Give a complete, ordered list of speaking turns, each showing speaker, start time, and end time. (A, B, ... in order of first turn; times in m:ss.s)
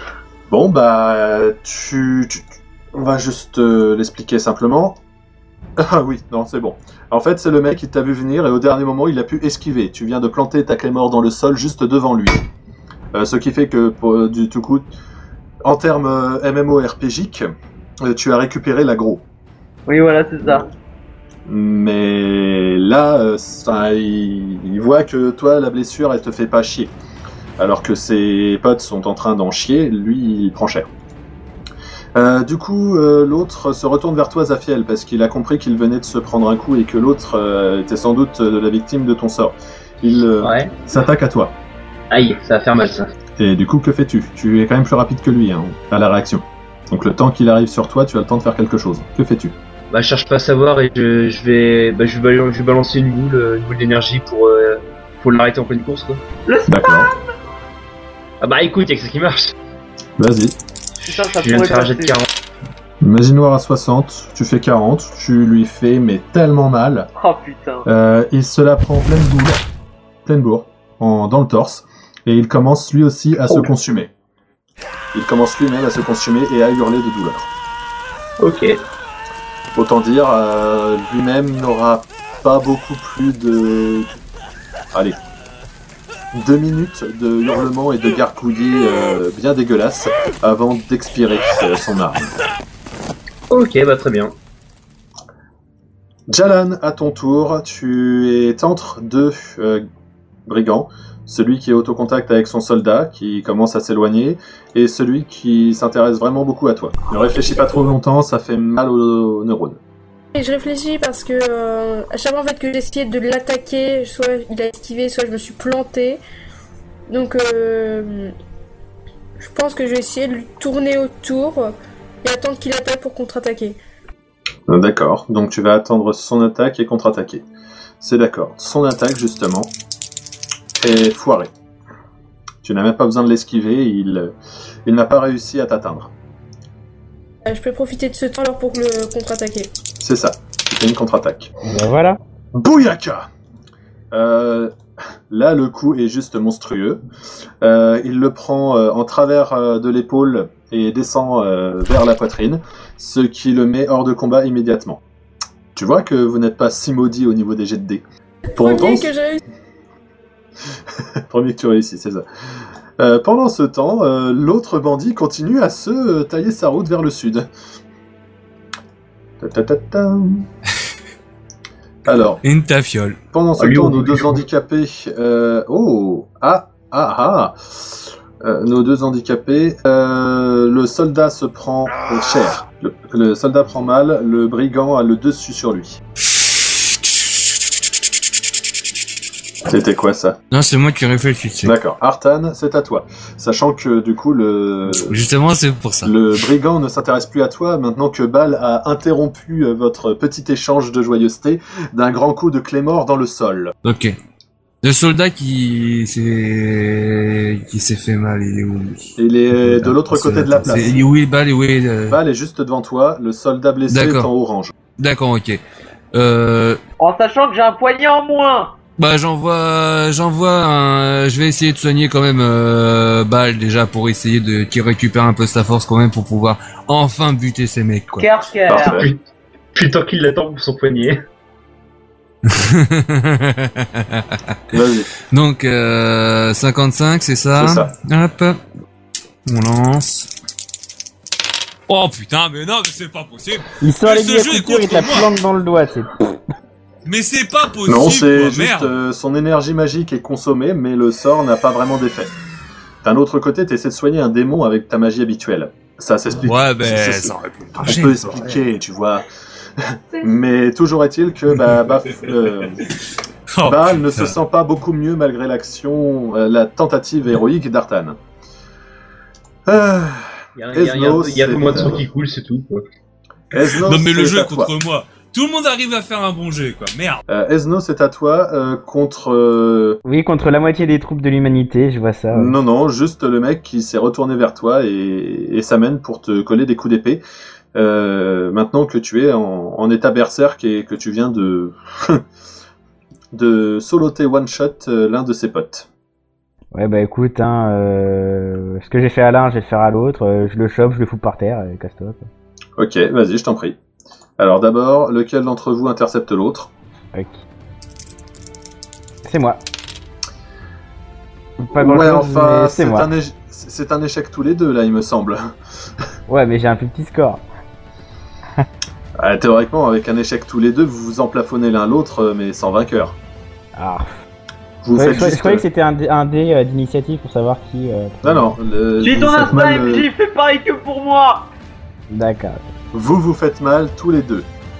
0:00.5-0:05.0 A
0:05.8-0:12.4 A
0:13.1-0:14.9 A
0:15.6-0:17.5 A
0:18.0-0:19.2 A
0:19.9-0:20.6 B
0:21.5-0:26.9 A
0:27.6-0:30.9 A
0:32.1-0:41.5 A
0:40.4-0:40.7 C
0:42.1-0:43.1 C
0:43.4-0:49.5 A
0:49.9-0:56.2 C
0:56.5-0:57.2 B
0:56.7-0:57.1 A
0:58.4-0:59.5 C
1:00.2-1:00.6 A
1:01.0-1:02.3 C
1:01.0-1:02.1 B
1:03.0-1:07.1 A
1:07.2-1:07.8 B
1:07.8-1:09.6 A
1:10.2-1:14.1 A
1:15.1-1:17.5 A
1:18.4-1:18.8 C
1:19.7-1:24.2 A
1:26.3-1:32.3 A
1:33.5-1:34.3 C
1:36.3-1:39.8 A
1:40.4-1:49.8 A
1:50.3-1:56.2 D
1:57.1-1:58.3 D
1:59.4-2:03.8 D
2:04.7-2:07.4 A
2:08.0-2:09.7 A
2:10.8-2:11.5 A
2:12.6-2:14.3 A
2:14.8-2:16.1 A
2:17.4-2:19.7 D
2:20.0-2:21.5 A
2:21.6-2:22.2 E
2:22.5-2:23.3 A
2:24.1-2:24.7 A
2:25.3-2:27.0 A
2:27.6-2:35.0 A
2:35.7-2:38.0 A
2:38.5-2:39.4 D
2:38.6-2:39.1 A
2:41.3-2:42.2 A
2:43.0-2:47.5 A
2:49.4-2:50.5 A
2:52.0-2:52.4 A
2:52.4-2:53.2 F
2:53.3-3:06.0 A
2:53.6-2:54.4 C
3:09.7-3:10.4 A
3:10.5-3:11.8 F
3:11.6-3:15.2 A
3:14.9-3:16.1 F
3:16.0-3:23.7 A
3:23.8-3:24.1 F
3:24.8-3:32.2 F
3:29.2-3:31.0 A
3:32.1-3:34.7 A
3:33.9-3:34.3 F
3:35.0-3:35.6 F
3:36.1-3:36.8 F
3:37.0-3:38.8 B
3:39.0-3:48.3 F
3:48.2-3:49.0 B
3:48.7-3:49.1 A
3:48.8-3:49.2 C
3:49.7-3:51.2 C
3:52.4-3:54.6 F
3:54.7-3:55.1 A
3:55.3-3:58.6 F
3:57.6-3:57.9 A
3:59.4-4:00.3 F
4:01.9-4:05.3 F
4:03.8-4:06.3 E
4:07.0-4:08.9 F
4:07.9-4:12.3 A
4:13.0-4:19.2 A
4:16.4-4:18.5 F
4:19.8-4:22.8 A
4:23.5-4:24.3 F
4:23.6-4:28.2 A
4:29.6-4:32.0 A
4:30.6-4:32.8 C
4:33.5-4:34.7 A
4:33.6-4:37.2 F
4:37.3-4:40.0 A
4:40.0-4:42.5 E
4:42.3-4:47.2 A
4:47.7-4:52.2 A
4:53.3-4:55.9 A
4:56.7-5:02.3 E
5:02.8-5:03.8 A
5:04.4-5:06.7 A
5:07.1-5:07.4 E
5:09.2-5:09.6 E
5:11.6-5:13.1 E
5:11.7-5:15.5 A
5:16.3-5:17.4 E
5:19.2-5:23.2 A
5:23.8-5:24.1 E
5:24.8-5:25.6 A
5:24.9-5:28.5 E
5:28.2-5:30.1 A
5:29.0-5:31.5 B
5:32.1-5:32.6 E
5:32.9-5:34.5 A